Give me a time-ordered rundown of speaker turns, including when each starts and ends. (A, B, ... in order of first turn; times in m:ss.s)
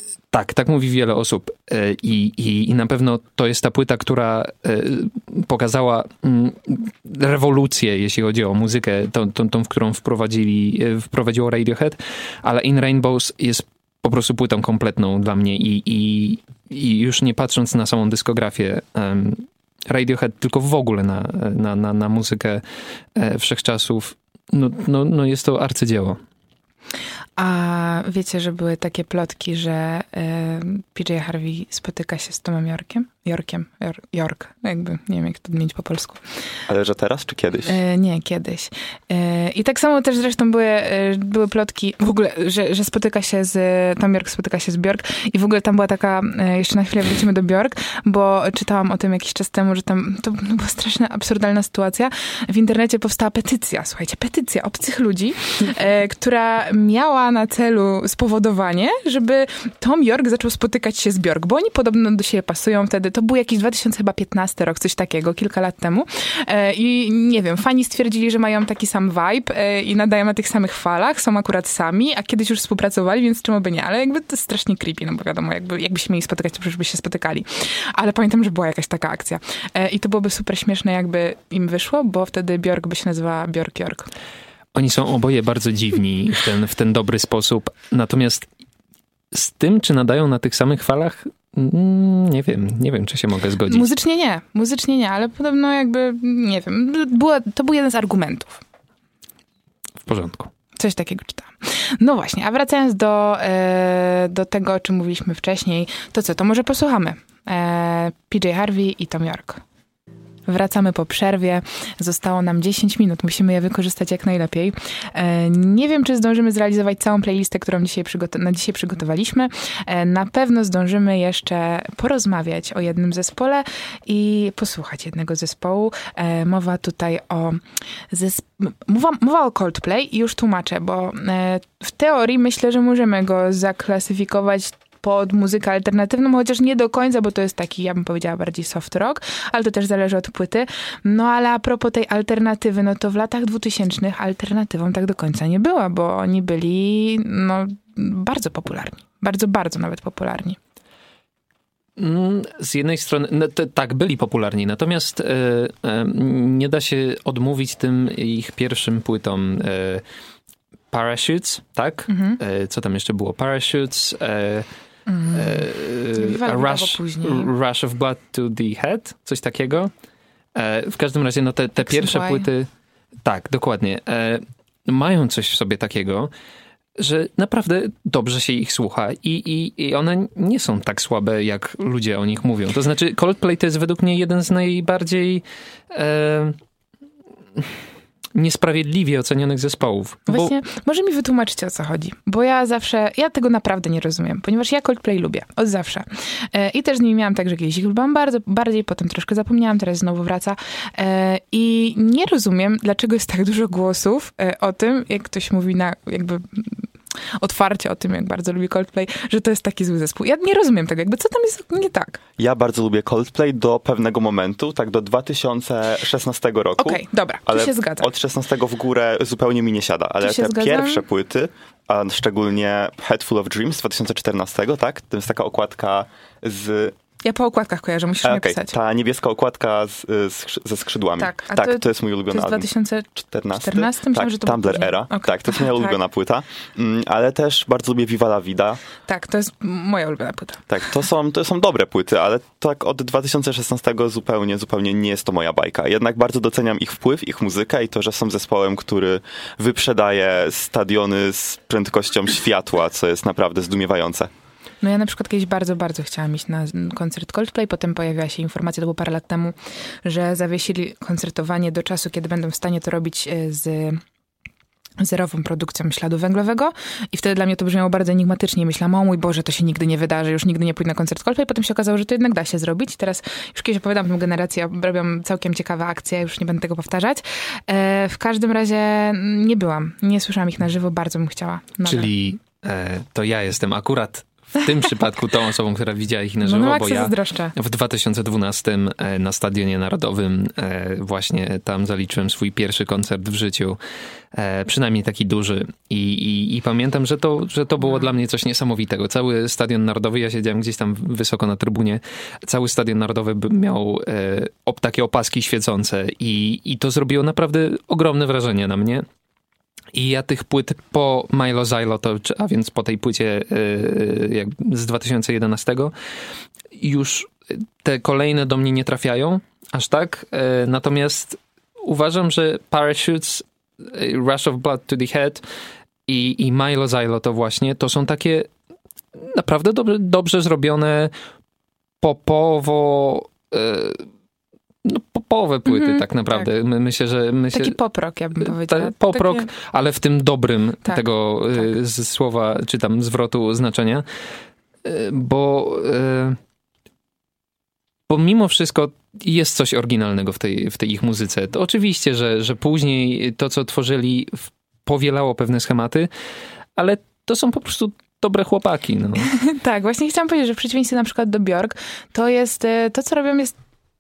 0:00.3-0:22.6 A
0:23.2-0:26.2 A
0:27.4-0:36.2 B
0:36.7-0:37.8 C
0:37.6-1:24.1 B
1:24.8-1:28.5 A
1:29.3-1:33.9 A
1:33.7-1:38.6 B
1:40.0-1:40.5 A
1:40.8-1:49.6 B
1:50.5-2:30.6 B
2:32.0-2:40.0 A
2:40.9-2:44.7 A
2:42.1-2:42.4 B
2:45.1-2:45.6 B
2:45.3-2:49.9 A
2:46.2-2:47.5 B
2:50.6-2:52.7 A
2:51.8-2:52.5 B
2:53.2-2:56.3 A
2:57.0-3:06.6 A
3:08.4-3:10.5 A
3:10.3-3:26.9 B
3:27.4-3:32.2 B
3:32.4-3:47.0 C
3:36.8-3:38.1 B
3:40.2-3:41.0 B
3:47.2-3:48.7 B
3:48.2-3:58.8 C
3:51.2-3:56.0 B
3:59.1-4:00.6 B
4:00.7-4:14.3 C
4:14.8-4:24.0 B
4:25.0-4:42.1 B
4:41.8-4:53.8 A
4:46.4-4:47.5 B
4:54.3-5:09.1 A
5:09.9-5:15.9 A
5:16.7-5:25.4 A
5:26.1-5:28.5 A
5:29.2-5:31.1 A
5:32.0-5:34.1 A
5:34.8-5:37.8 A
5:35.7-5:36.5 B
5:37.5-5:39.5 B
5:38.5-5:44.0 A
5:44.8-5:46.4 A
5:48.1-5:56.1 A
5:56.8-5:59.3 A
5:59.2-6:03.6 B